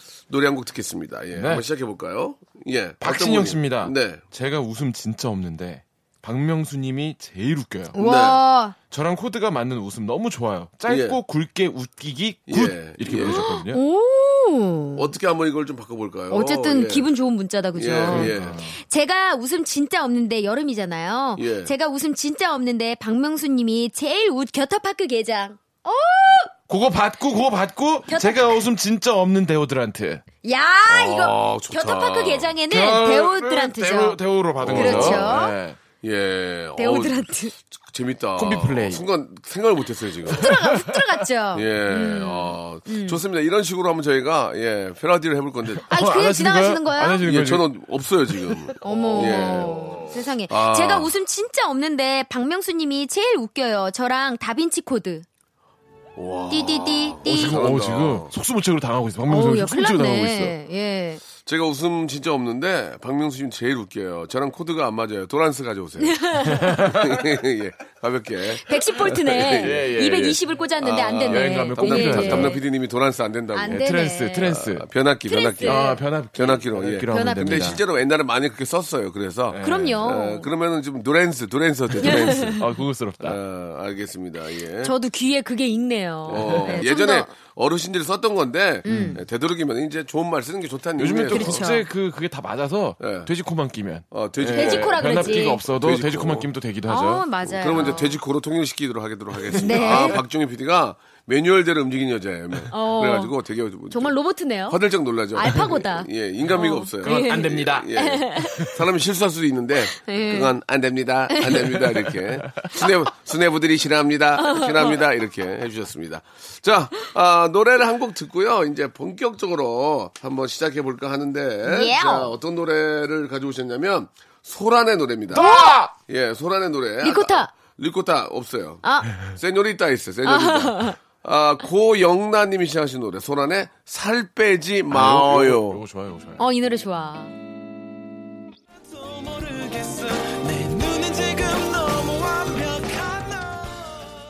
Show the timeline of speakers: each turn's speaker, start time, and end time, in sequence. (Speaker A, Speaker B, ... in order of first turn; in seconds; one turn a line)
Speaker A: 0.3-4.2
Speaker B: 1.3-1.6
Speaker B: 3.0-8.0
Speaker C: 7.9-8.7
Speaker A: 8.0-8.4
Speaker B: 8.9-13.8
Speaker A: 10.9-11.2
Speaker A: 12.5-13.5
Speaker C: 13.3-15.1
Speaker A: 14.9-17.1
Speaker C: 16.3-26.5
Speaker A: 17.7-18.6
Speaker B: 18.1-18.8
Speaker A: 21.4-21.7
Speaker B: 26.7-30.2
Speaker C: 28.1-28.6
Speaker C: 30.4-35.5
Speaker A: 30.9-32.5
Speaker B: 32.7-35.8
Speaker A: 34.6-35.4
Speaker A: 36.0-37.2
Speaker C: 36.8-37.5
Speaker A: 37.8-40.5
Speaker B: 38.4-39.0
Speaker C: 40.3-43.2
Speaker B: 40.4-41.0
Speaker A: 41.5-45.8
Speaker B: 45.7-47.7
Speaker C: 45.9-47.2
Speaker A: 47.2-51.1
Speaker C: 48.8-55.2
Speaker B: 48.8-50.0
Speaker A: 56.1-58.3
Speaker C: 56.5-57.6
Speaker B: 57.2-60.5
Speaker C: 59.3-61.2
Speaker A: 61.4-69.9
Speaker C: 66.0-66.8
Speaker B: 66.4-67.2
Speaker C: 68.6-72.6
Speaker B: 69.5-70.4
Speaker A: 70.8-73.9
Speaker B: 71.3-72.6
Speaker C: 73.5-74.5
Speaker B: 73.7-74.8
Speaker A: 74.4-82.6
Speaker C: 75.3-76.0
Speaker B: 75.6-77.8
Speaker C: 77.1-77.6
Speaker B: 79.5-80.0
Speaker C: 79.6-80.5
Speaker B: 82.0-83.4
Speaker C: 82.0-82.6
Speaker A: 83.2-84.9
Speaker C: 84.8-87.3
Speaker A: 86.3-91.7
Speaker B: 86.3-86.8
Speaker C: 88.8-89.2
Speaker B: 88.8-89.2
Speaker B: 91.0-98.0
Speaker C: 91.3-91.8
Speaker A: 93.0-93.3
Speaker A: 94.1-96.5
Speaker C: 94.5-95.6
Speaker C: 96.8-98.2
Speaker A: 97.4-104.1
Speaker B: 99.5-100.2
Speaker C: 99.5-100.2
Speaker C: 102.7-103.3
Speaker C: 103.9-104.8
Speaker A: 104.7-135.8
Speaker C: 105.3-108.7
Speaker B: 107.0-108.8
Speaker C: 110.0-110.5
Speaker C: 111.3-111.8
Speaker B: 111.8-112.7
Speaker C: 114.4-114.9
Speaker C: 121.6-122.3
Speaker C: 125.3-125.8
Speaker B: 125.3-125.9
Speaker C: 127.0-127.5
Speaker C: 128.8-129.1
Speaker C: 130.2-131.0
Speaker B: 134.9-136.4
Speaker C: 136.4-137.3
Speaker D: 139.1-143.7
Speaker B: 140.7-141.6